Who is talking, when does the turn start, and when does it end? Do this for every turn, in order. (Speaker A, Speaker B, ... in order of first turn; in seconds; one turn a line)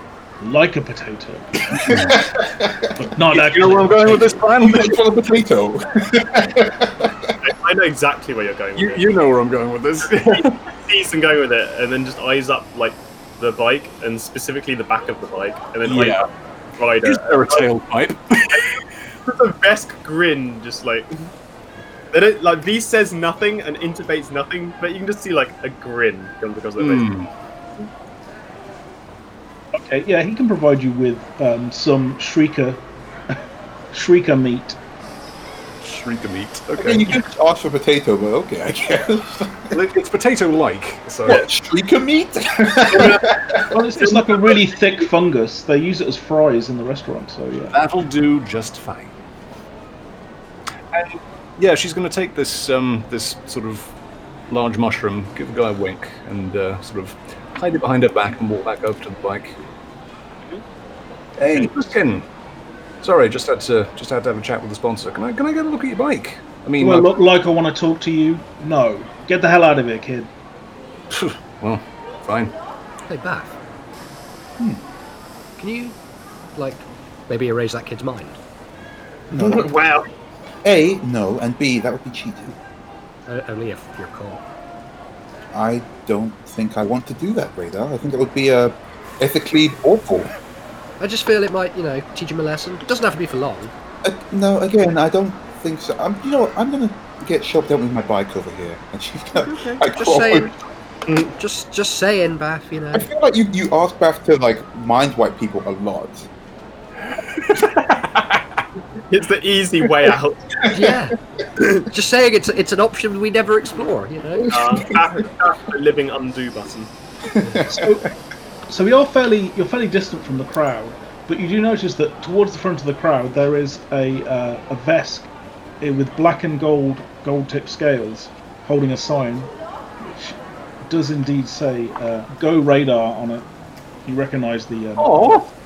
Speaker A: 0.4-1.6
Speaker B: 1.7-2.2
Speaker C: 1.9-2.9
Speaker A: 3.0-4.4
Speaker B: 3.3-5.0
Speaker C: 4.6-7.4
Speaker D: 7.4-9.0
Speaker B: 8.7-10.6
Speaker D: 10.0-16.2
Speaker B: 15.8-16.2
Speaker D: 16.8-17.6
Speaker B: 17.0-18.8
Speaker D: 19.2-21.1
Speaker D: 22.1-27.1
Speaker B: 26.8-27.3
Speaker A: 29.8-32.8
Speaker A: 33.9-34.8
Speaker B: 35.8-37.2
Speaker C: 36.8-39.8
Speaker B: 39.7-41.5
Speaker C: 41.2-44.5
Speaker A: 43.7-47.8
Speaker B: 47.7-49.1
Speaker B: 50.9-53.9
Speaker B: 54.5-59.5
Speaker C: 61.4-61.7
Speaker B: 61.5-62.2
Speaker B: 63.0-67.2
Speaker A: 66.8-70.3
Speaker B: 71.1-72.5
Speaker E: 73.1-73.5
Speaker E: 75.6-76.0
Speaker E: 76.5-78.4
Speaker C: 79.3-79.7
Speaker D: 79.3-80.1
Speaker C: 80.6-82.5
Speaker E: 83.3-84.4
Speaker C: 85.5-90.3
Speaker E: 91.0-93.7
Speaker C: 94.0-100.5
Speaker E: 99.4-100.5
Speaker E: 101.2-103.1
Speaker C: 102.9-106.3
Speaker B: 107.3-108.4
Speaker D: 109.0-110.7
Speaker E: 110.7-111.2
Speaker E: 111.9-114.6
Speaker C: 114.5-114.9
Speaker D: 114.5-116.9
Speaker C: 117.3-117.8
Speaker A: 117.6-118.1
Speaker A: 118.7-125.3
Speaker A: 125.8-133.5
Speaker A: 134.1-135.4
Speaker B: 135.0-135.5